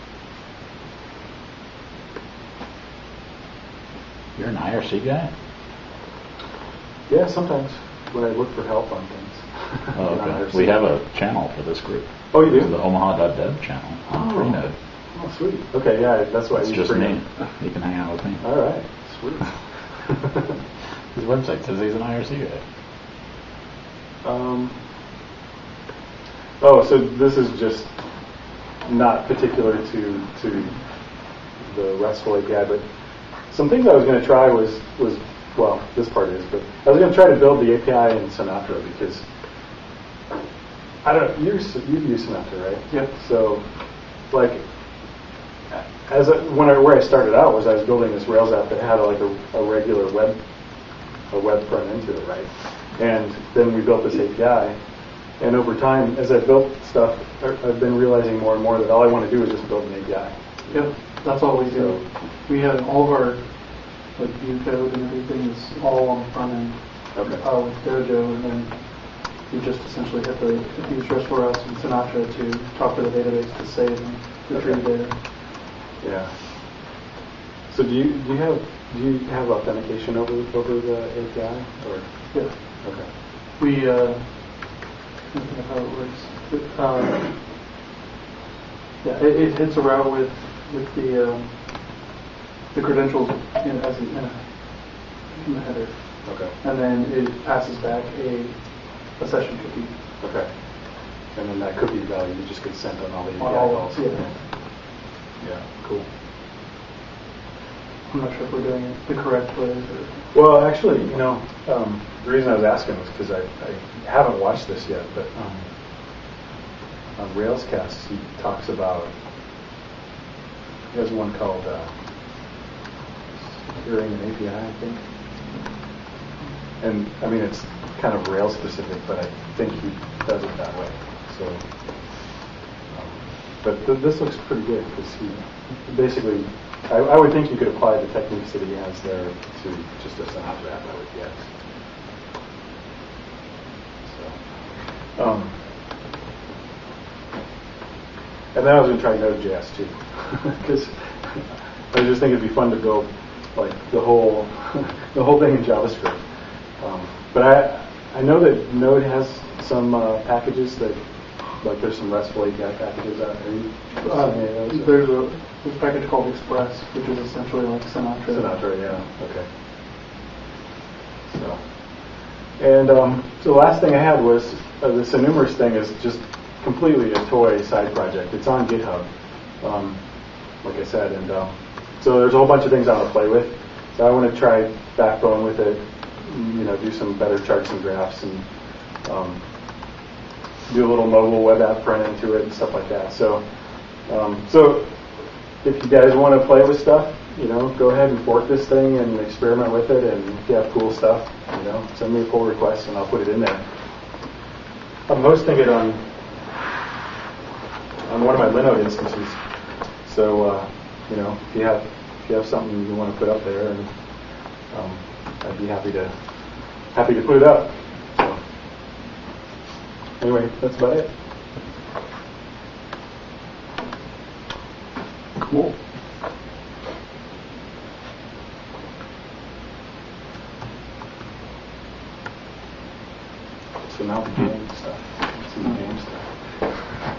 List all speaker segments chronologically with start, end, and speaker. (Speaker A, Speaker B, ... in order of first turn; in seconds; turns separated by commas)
Speaker A: 4.3-5.3, Speaker B: 7.1-10.8, Speaker A: 9.9-14.7, Speaker B: 12.3-12.7, Speaker B: 14.1-14.6, Speaker B: 15.1-17.2, Speaker A: 16.6-18.4, Speaker B: 18.4-19.5, Speaker B: 20.1-20.4, Speaker A: 21.1-22.6, Speaker B: 24.2-24.7, Speaker B: 26.6-27.9, Speaker B: 28.8-30.8, Speaker B: 31.6-32.8, Speaker B: 33.5-39.2, Speaker B: 41.0-43.6, Speaker B: 44.3-44.6, Speaker B: 45.7-50.4, Speaker B: 51.3-54.8, Speaker B: 55.4-62.0, Speaker C: 60.7-75.2, Speaker B: 67.1-67.4, Speaker B: 74.5-75.3, Speaker B: 76.0-76.3, Speaker B: 77.7-83.1, Speaker C: 82.3-82.8, Speaker C: 83.5-87.5, Speaker C: 89.0-92.1, Speaker C: 92.7-99.9, Speaker B: 96.2-96.5, Speaker B: 100.2-100.5, Speaker B: 101.3-104.3, Speaker C: 103.4-104.4, Speaker B: 105.4-106.0, Speaker C: 108.1-110.2, Speaker B: 110.3-115.6, Speaker B: 117.2-119.1, Speaker B: 120.9-121.9, Speaker B: 123.7-125.0, Speaker B: 126.8-131.6, Speaker B: 132.9-141.5, Speaker B: 144.1-144.4, Speaker B: 145.2-145.5, Speaker B: 148.5-156.2, Speaker B: 156.8-164.9, Speaker C: 164.0-168.5, Speaker B: 168.3-169.5, Speaker B: 171.3-171.7, Speaker B: 172.6-179.1, Speaker B: 179.6-180.0, Speaker B: 180.6-188.4, Speaker B: 189.0-189.4, Speaker B: 190.7-193.4, Speaker B: 194.1-194.9, Speaker B: 195.6-203.6, Speaker B: 205.1-206.0, Speaker B: 208.1-209.4, Speaker B: 210.0-213.9, Speaker B: 214.7-216.1, Speaker B: 216.9-218.4, Speaker B: 220.2-221.1, Speaker C: 225.4-225.7, Speaker B: 233.8-236.3